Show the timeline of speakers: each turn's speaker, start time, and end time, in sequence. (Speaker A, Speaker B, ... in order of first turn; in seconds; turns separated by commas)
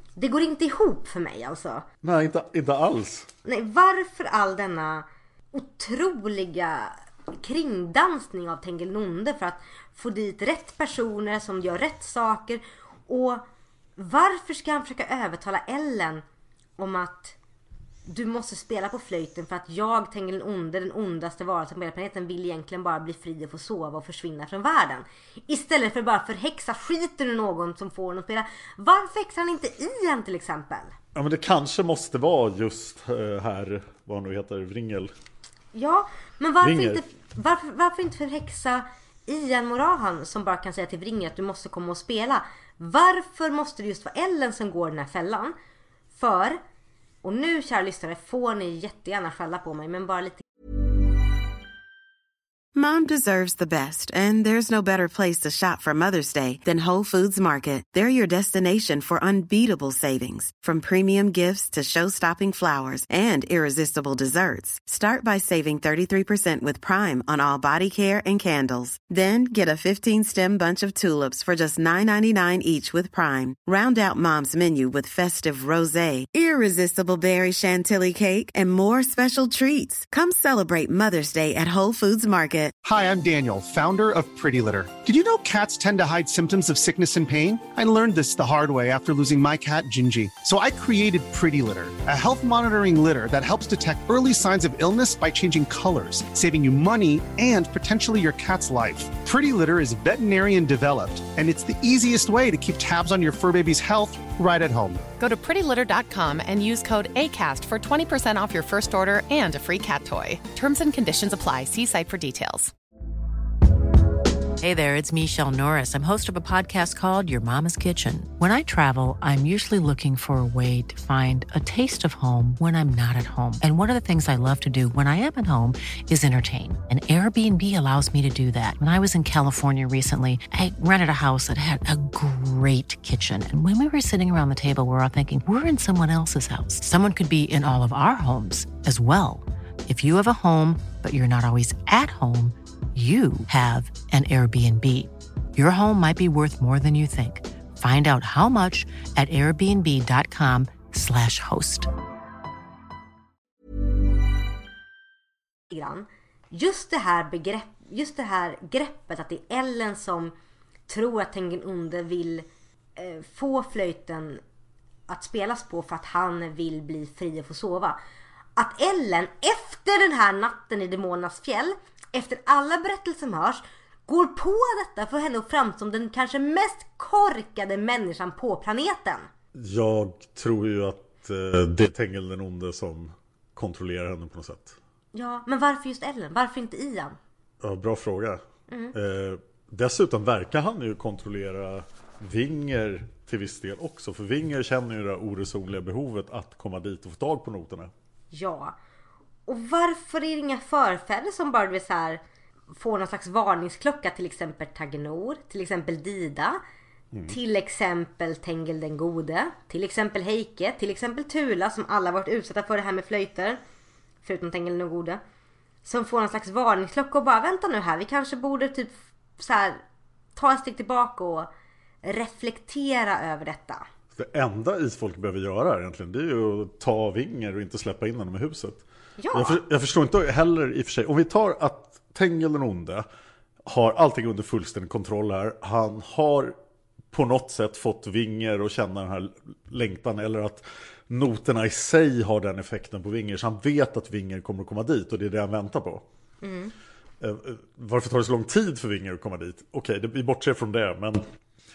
Speaker A: 0.2-1.8, Speaker B: 2.0-3.3, Speaker A: 3.5-13.4, Speaker A: 14.0-16.2, Speaker A: 16.8-17.4, Speaker A: 18.1-30.9, Speaker B: 31.1-35.1, Speaker A: 35.7-45.5, Speaker B: 36.6-37.0, Speaker A: 46.1-46.6, Speaker A: 47.2-50.4, Speaker C: 52.8-82.8, Speaker D: 82.8-105.0, Speaker E: 105.2-112.7, Speaker F: 114.6-151.9, Speaker A: 155.7-160.3, Speaker A: 160.9-164.4, Speaker A: 165.1-168.0, Speaker A: 168.6-179.3, Speaker B: 179.6-184.8, Speaker A: 185.1-187.2, Speaker B: 187.6-197.9, Speaker A: 188.7-188.9, Speaker A: 198.3-198.8, Speaker A: 199.5-202.2, Speaker A: 202.7-206.6, Speaker A: 207.3-213.6, Speaker A: 214.2-215.2, Speaker A: 215.8-219.8, Speaker A: 220.4-221.5, Speaker A: 222.0-223.9, Speaker B: 224.2-233.1, Speaker A: 229.2-229.6, Speaker B: 233.7-236.6, Speaker B: 237.1-246.0, Speaker A: 246.4-246.7, Speaker B: 247.2-251.2